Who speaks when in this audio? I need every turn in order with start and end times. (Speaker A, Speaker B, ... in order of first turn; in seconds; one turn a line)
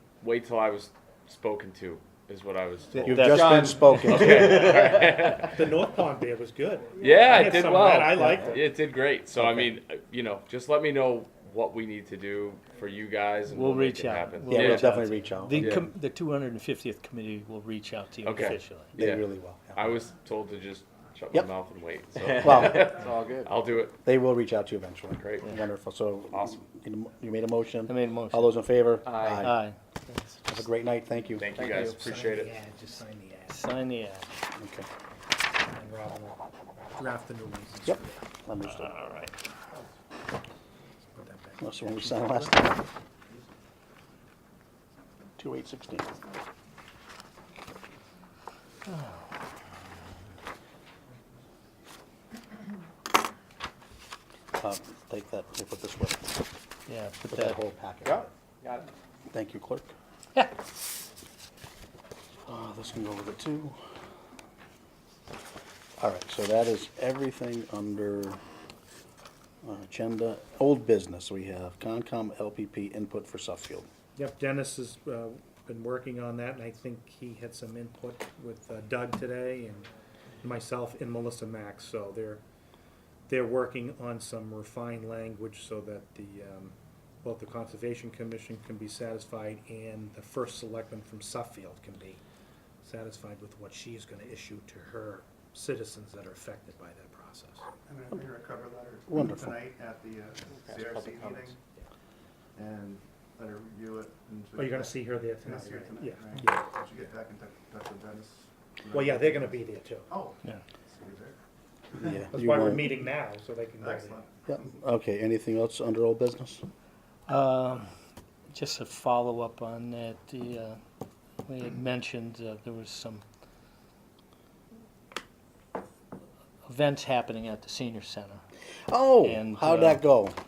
Speaker A: 0.2-3.5
Speaker B: 3.0-4.4
Speaker C: 3.0-4.7
Speaker D: 3.2-5.1
Speaker A: 4.0-5.8
Speaker E: 4.3-8.7
Speaker A: 7.0-14.9
Speaker C: 9.3-9.7
Speaker B: 13.5-18.9
Speaker C: 14.5-15.9
Speaker A: 15.5-15.9
Speaker A: 18.2-24.0
Speaker C: 18.9-19.9
Speaker D: 22.2-23.6
Speaker C: 22.4-22.9
Speaker C: 24.0-29.6
Speaker A: 25.1-25.6
Speaker A: 26.3-26.6
Speaker B: 27.9-28.6
Speaker D: 29.1-29.5
Speaker B: 29.4-30.4
Speaker C: 30.5-31.6
Speaker A: 31.4-32.6
Speaker D: 31.6-32.0
Speaker E: 31.7-33.7
Speaker B: 33.5-34.3
Speaker C: 34.6-34.9
Speaker E: 35.7-36.4
Speaker E: 37.0-38.2
Speaker C: 37.9-38.9
Speaker B: 38.8-39.3
Speaker E: 41.1-42.5
Speaker C: 41.6-42.8
Speaker C: 45.4-46.1
Speaker C: 54.6-56.4
Speaker B: 56.9-57.6
Speaker C: 57.2-58.3
Speaker D: 58.0-58.9
Speaker C: 59.3-59.9
Speaker C: 62.5-63.8
Speaker C: 66.0-68.4
Speaker C: 69.6-73.9
Speaker E: 74.2-79.9
Speaker E: 80.4-82.4
Speaker E: 83.3-92.2
Speaker E: 92.8-97.7
Speaker F: 97.9-101.6
Speaker C: 99.1-99.6
Speaker D: 100.5-101.6
Speaker F: 102.5-111.4
Speaker E: 104.6-106.5
Speaker E: 108.9-110.1
Speaker C: 112.0-112.9
Speaker E: 112.0-114.2
Speaker F: 113.8-114.6
Speaker C: 114.5-116.6
Speaker B: 117.3-117.9
Speaker B: 118.5-120.8
Speaker B: 121.5-123.2
Speaker B: 126.7-128.4
Speaker C: 128.9-130.3
Speaker B: 129.2-130.0